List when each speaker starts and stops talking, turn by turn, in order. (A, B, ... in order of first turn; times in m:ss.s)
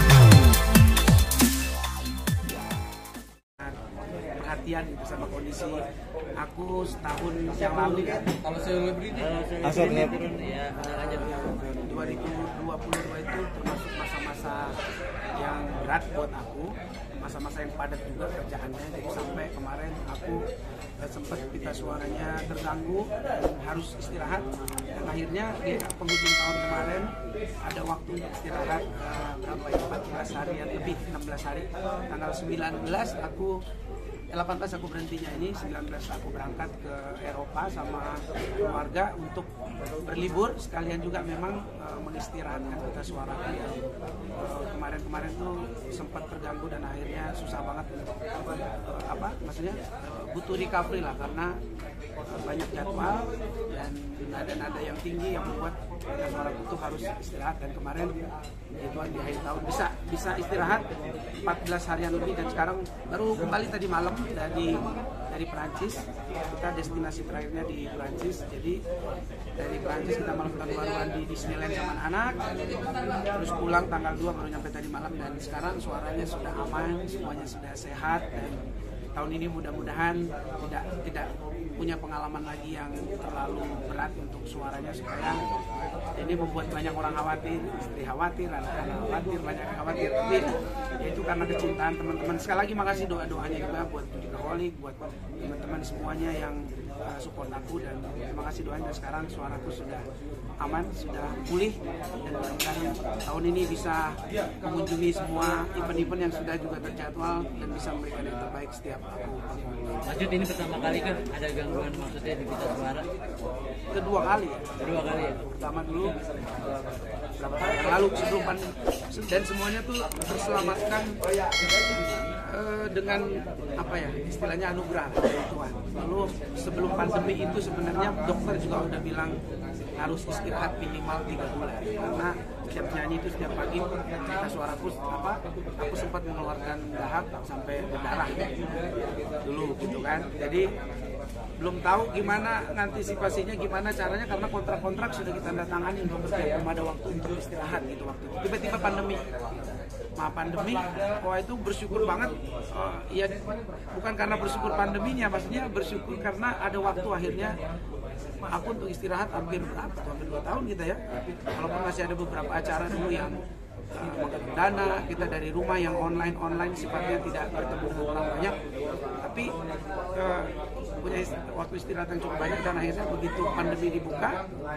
0:03.6-0:08.5 A
0:08.6-0:11.7 B
0:11.4-0:14.8 A
0:15.3-0:20.4 A
0:21.0-0:33.6 A
0:34.3-0:43.8 A
0:44.4-0:51.6 A
0:52.3-0:58.2 A
0:58.7-1:00.9 A
1:01.4-1:08.8 A
1:09.6-1:12.5 A
1:13.1-1:25.5 A
1:26.1-1:40.1 A
1:40.6-1:49.6 A
1:50.0-1:53.1 B
1:53.9-1:54.8 A
1:54.8-1:55.4 B
1:55.4-1:56.2 A
1:57.4-2:01.2 A
2:02.2-2:09.4 A
2:09.9-2:20.7 A
2:21.6-2:29.3 A
2:30.2-2:37.6 A
2:38.4-2:43.4 A
2:43.9-2:48.6 A
2:49.2-2:49.6 A
2:50.1-2:54.5 A